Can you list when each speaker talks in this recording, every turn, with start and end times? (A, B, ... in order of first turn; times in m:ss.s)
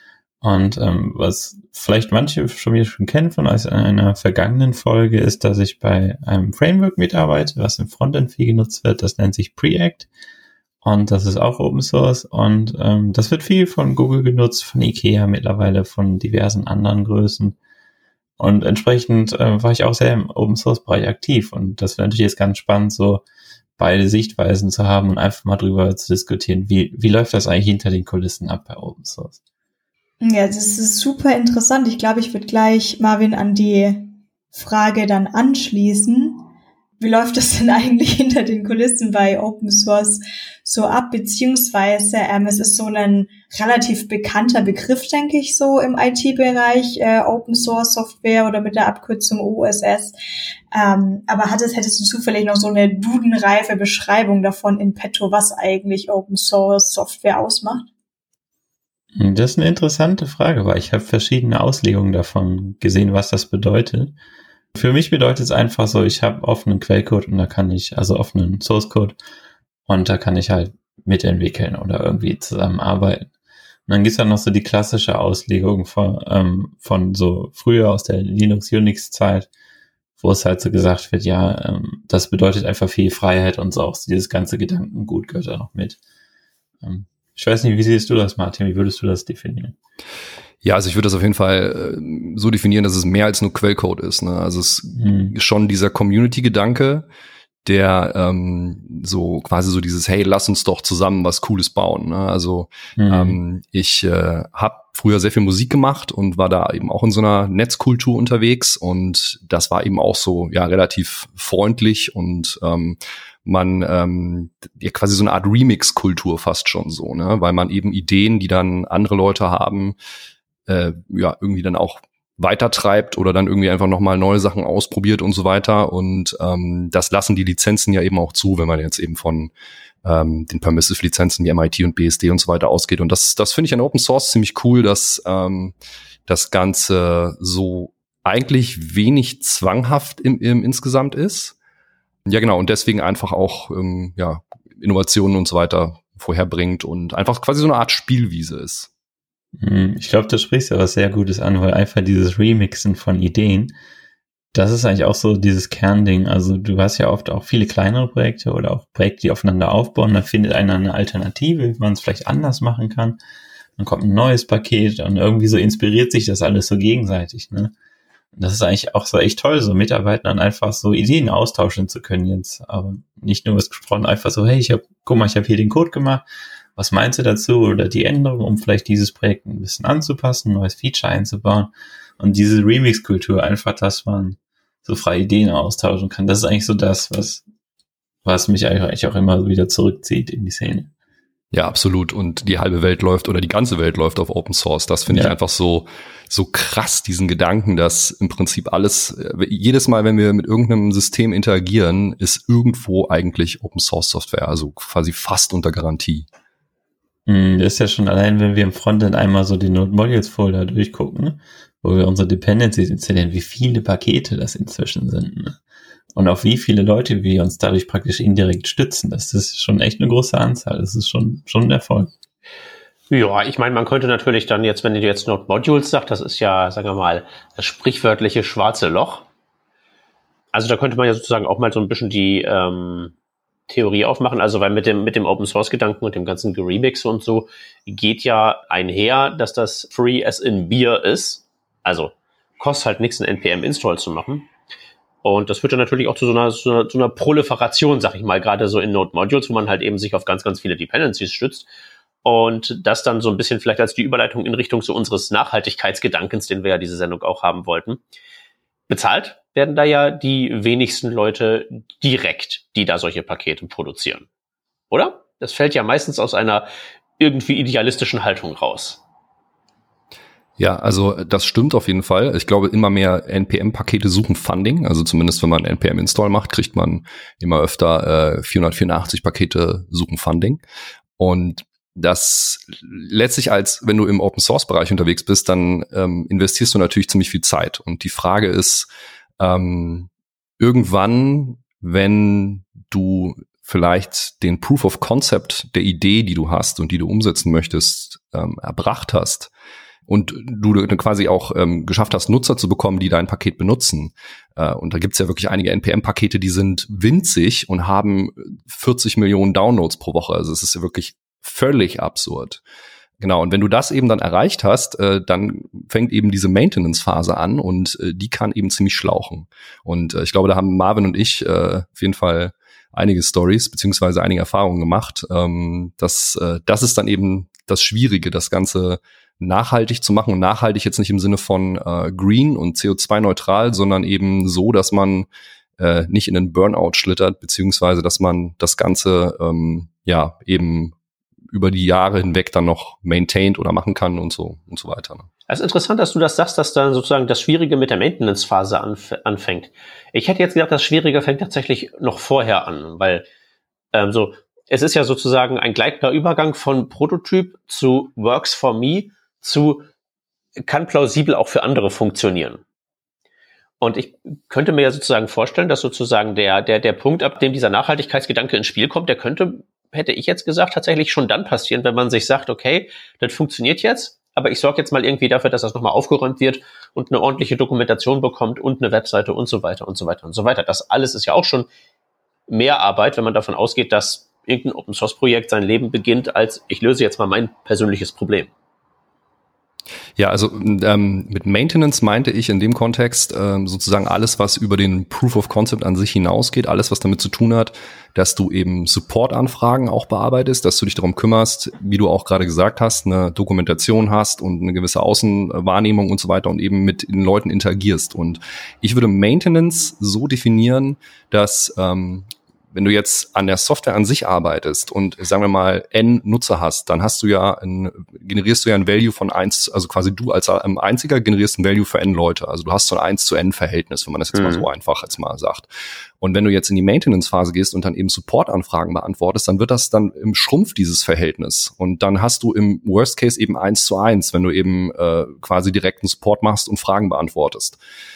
0:00.4-0:10.1 A
0:10.8-0:17.6 A
0:18.4-0:23.2 A
0:23.8-0:29.4 A
0:30.2-0:36.5 B
0:37.0-0:50.2 B
0:50.7-0:57.9 B
0:59.2-1:04.2 A
1:04.7-1:09.2 A
1:09.9-1:13.3 A
1:13.9-1:19.5 A
1:20.2-1:26.0 A
1:26.8-1:29.8 A
1:30.6-1:37.1 C
1:35.0-1:35.3 A
1:37.6-2:00.0 C
1:43.0-1:43.4 A
2:00.7-2:09.5 C
2:10.0-2:15.7 C
2:16.3-2:21.6 C
2:22.3-2:28.9 C
2:29.6-2:33.7 A
2:34.5-2:43.2 A
2:43.8-2:47.7 A
2:48.4-2:56.2 A
2:56.8-3:07.4 A
3:08.2-3:10.9 A
3:11.5-3:26.3 C
3:15.1-3:15.4 A
3:27.3-3:35.6 A
3:36.1-3:42.1 A
3:43.1-3:49.3 D
3:50.5-3:53.1 D
3:53.7-4:04.5 D
4:05.2-4:11.7 D
4:12.2-4:18.0 D
4:18.9-4:24.3 D
4:24.9-4:26.7 D
4:27.2-4:29.0 D
4:30.6-4:40.6 C
4:41.2-4:48.9 C
4:49.4-4:59.5 C
5:00.1-5:12.6 C
5:13.2-5:35.3 C
5:35.8-5:41.0 C
5:41.5-5:45.3 C
5:45.5-5:53.2 D
5:53.9-5:59.9 D
6:00.6-6:02.6 D
6:03.8-6:21.7 D
6:22.5-6:28.5 D
6:30.2-7:05.7 C
7:04.3-7:04.7 D
7:06.2-7:17.8 C